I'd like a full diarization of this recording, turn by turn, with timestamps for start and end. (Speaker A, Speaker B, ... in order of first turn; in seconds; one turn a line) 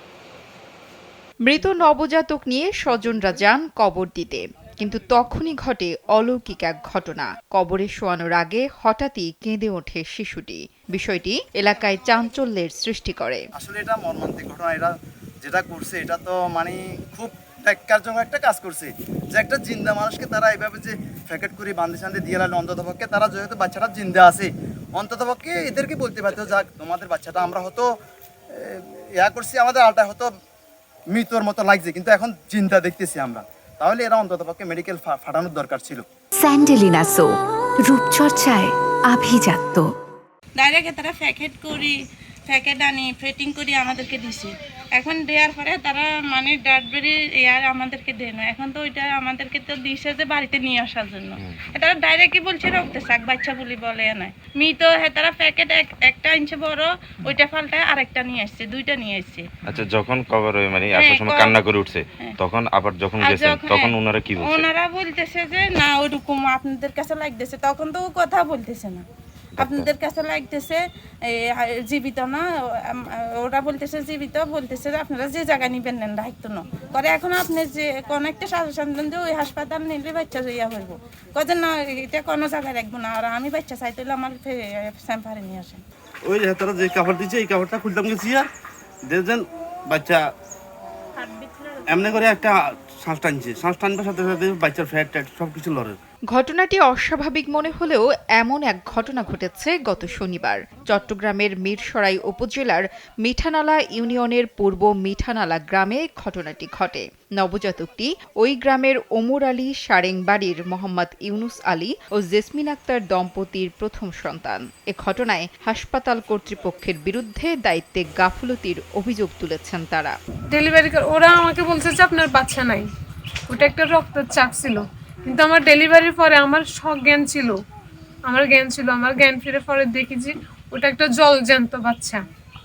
Speaker A: 1.5-13.5
Speaker B: 13.6-27.9
Speaker B: 28.5-30.3
Speaker B: 31.1-36.0
Speaker C: 36.4-39.9
Speaker D: 40.6-42.0
Speaker D: 42.5-59.5
Speaker E: 51.4-51.7
Speaker E: 59.7-64.7
Speaker D: 60.9-61.6
Speaker D: 63.2-69.0
Speaker E: 69.6-69.9
Speaker D: 69.6-85.8
Speaker F: 86.2-88.5
Speaker F: 89.1-90.3
Speaker D: 91.2-92.0
Speaker F: 91.9-96.0
Speaker A: 96.3-120.1
Speaker G: 120.5-122.9
Speaker G: 123.5-127.6
Speaker G: 128.3-132.2